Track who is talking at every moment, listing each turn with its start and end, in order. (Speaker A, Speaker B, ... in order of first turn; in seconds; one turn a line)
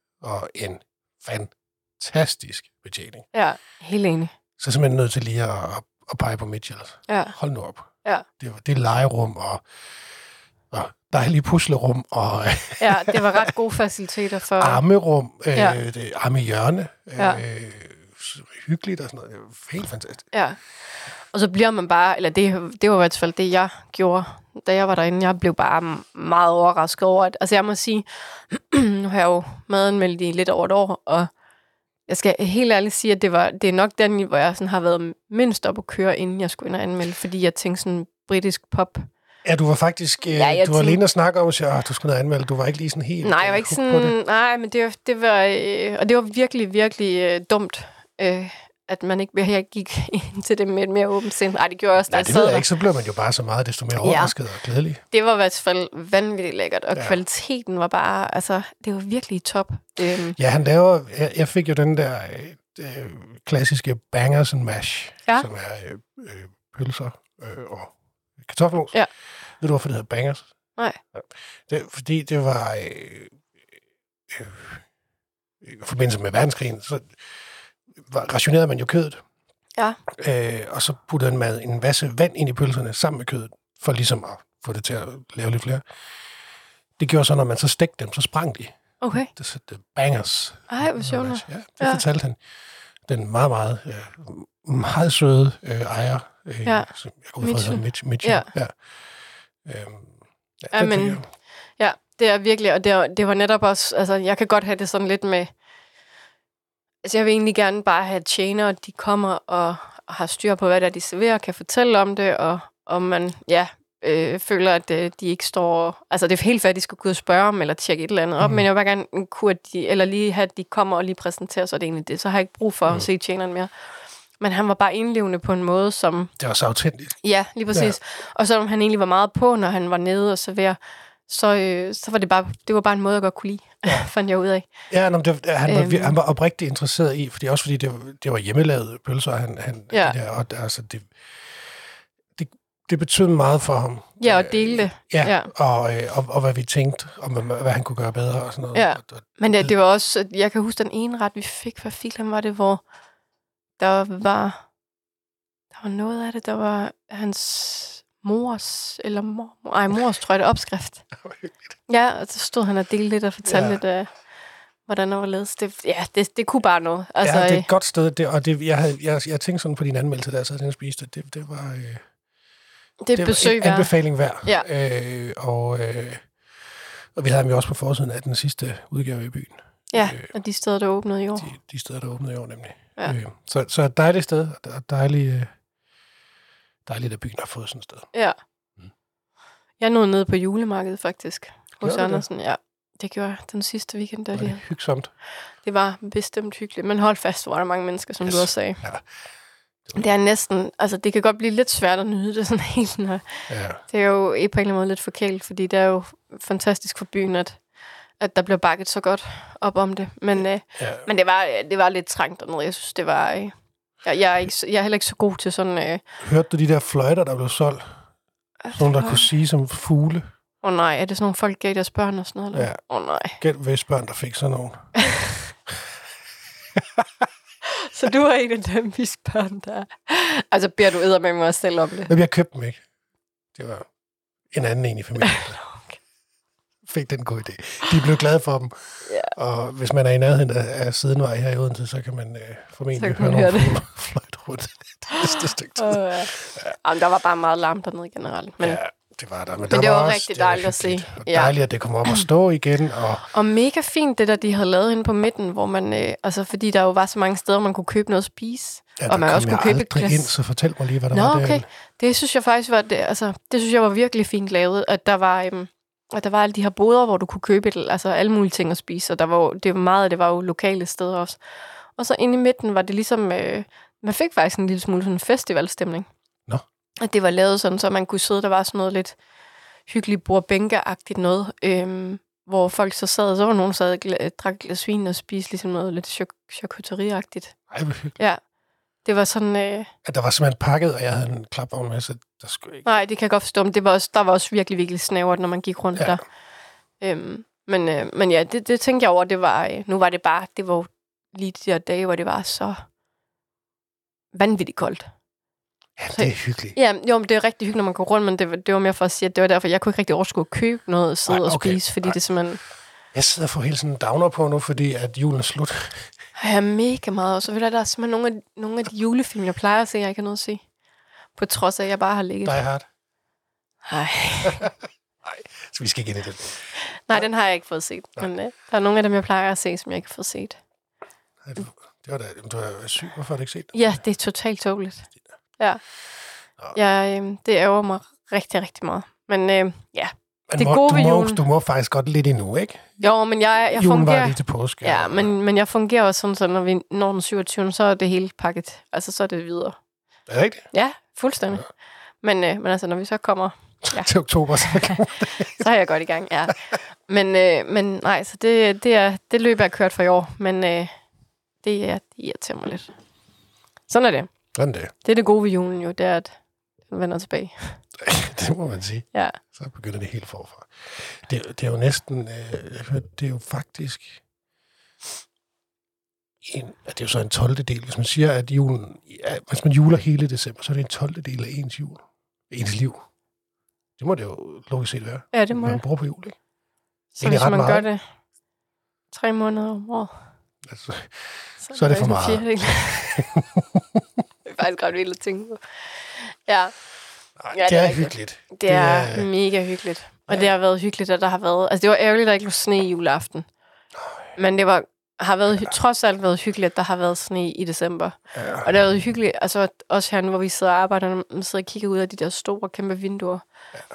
Speaker A: 0.2-3.3
Speaker B: 3.3-4.3
Speaker A: 4.6-9.6
Speaker B: 7.1-7.3
Speaker A: 10.7-13.5
Speaker B: 12.8-14.8
Speaker A: 14.6-20.3
Speaker B: 15.6-15.8
Speaker B: 20.3-20.6
Speaker B: 21.3-31.3
Speaker B: 32.1-39.1
Speaker A: 39.4-44.1
Speaker B: 40.3-41.0
Speaker B: 43.2-52.7
Speaker A: 52.1-55.0
Speaker B: 54.0-54.3
Speaker B: 55.1-60.4
Speaker A: 56.9-57.2
Speaker A: 60.4-69.0
Speaker A: 69.6-70.4
Speaker A: 71.1-73.4
Speaker A: 74.3-74.8
Speaker A: 75.6-77.2
Speaker A: 78.0-79.2
Speaker A: 80.1-85.8
Speaker A: 87.0-88.8
Speaker B: 89.0-89.3
Speaker A: 89.4-92.4
Speaker B: 90.7-92.0
Speaker A: 93.1-98.8
Speaker B: 96.7-98.5
Speaker A: 99.6-101.2
Speaker B: 100.7-101.2
Speaker B: 101.8-105.5
Speaker B: 107.0-123.7
Speaker A: 118.4-118.7
Speaker B: 124.4-126.3
Speaker A: 126.4-127.2
Speaker B: 127.2-134.7
Speaker A: 134.9-141.1
Speaker B: 135.7-136.2
Speaker A: 142.4-149.7
Speaker B: 144.2-145.5
Speaker B: 148.7-152.8
Speaker B: 153.8-154.6
Speaker B: 155.8-161.1
Speaker A: 161.2-161.6
Speaker B: 161.9-164.1
Speaker A: 163.4-163.8
Speaker B: 164.9-167.7
Speaker A: 167.2-172.0
Speaker B: 173.0-173.9
Speaker A: 173.2-176.3
Speaker A: 177.2-180.3
Speaker B: 179.9-181.5
Speaker A: 181.4-185.5
Speaker A: 186.9-188.1
Speaker B: 189.8-194.6
Speaker A: 191.8-192.2
Speaker A: 194.3-195.1
Speaker B: 195.6-198.8
Speaker A: 198.2-199.1
Speaker B: 199.9-207.6
Speaker A: 203.5-203.8
Speaker B: 208.2-216.0
Speaker A: 210.8-211.1
Speaker A: 216.2-218.0
Speaker B: 218.6-219.3
Speaker A: 218.7-220.3
Speaker B: 220.6-223.4
Speaker A: 222.5-222.8
Speaker A: 223.4-224.9
Speaker B: 225.0-225.4
Speaker A: 226.8-227.2
Speaker B: 227.7-232.1
Speaker A: 232.1-232.8
Speaker A: 233.6-233.9
Speaker A: 234.5-235.6
Speaker B: 235.2-236.0
Speaker A: 236.8-246.7
Speaker B: 239.1-239.3
Speaker B: 242.9-243.8
Speaker B: 245.1-248.8
Speaker A: 248.6-253.3
Speaker B: 249.7-251.6
Speaker B: 253.3-260.3
Speaker A: 259.0-261.7
Speaker B: 261.1-271.4
Speaker B: 272.0-276.1
Speaker B: 277.0-279.2
Speaker B: 279.9-287.6
Speaker A: 287.7-288.2
Speaker B: 289.1-289.9
Speaker A: 290.1-292.9
Speaker B: 292.9-296.2
Speaker B: 297.0-302.8
Speaker B: 304.3-305.1
Speaker A: 306.0-306.8
Speaker B: 306.1-312.6
Speaker A: 311.3-312.2
Speaker A: 313.1-316.1
Speaker B: 316.4-320.6
Speaker B: 321.4-322.6
Speaker A: 322.4-322.9
Speaker B: 323.9-324.7
Speaker A: 324.4-324.7
Speaker A: 325.2-327.2
Speaker B: 326.9-330.6
Speaker A: 331.4-333.9
Speaker B: 333.7-335.8
Speaker B: 336.7-341.4
Speaker A: 340.5-343.0
Speaker B: 343.0-349.8
Speaker A: 343.7-345.3
Speaker A: 350.3-350.7
Speaker B: 350.7-351.7
Speaker B: 352.2-360.9
Speaker A: 353.9-355.6
Speaker B: 361.6-362.9
Speaker B: 363.9-364.3
Speaker A: 364.6-364.9
Speaker B: 365.0-366.3
Speaker B: 366.9-367.8
Speaker A: 368.0-374.2
Speaker B: 369.1-369.4
Speaker A: 376.4-383.0
Speaker A: 384.0-386.4
Speaker B: 385.3-385.8
Speaker B: 387.2-388.0
Speaker A: 387.2-387.9
Speaker B: 389.1-390.1
Speaker A: 390.6-394.0
Speaker B: 391.6-393.2
Speaker B: 394.5-396.7
Speaker A: 397.4-399.3
Speaker B: 397.5-403.5
Speaker B: 404.4-413.4
Speaker A: 408.3-408.7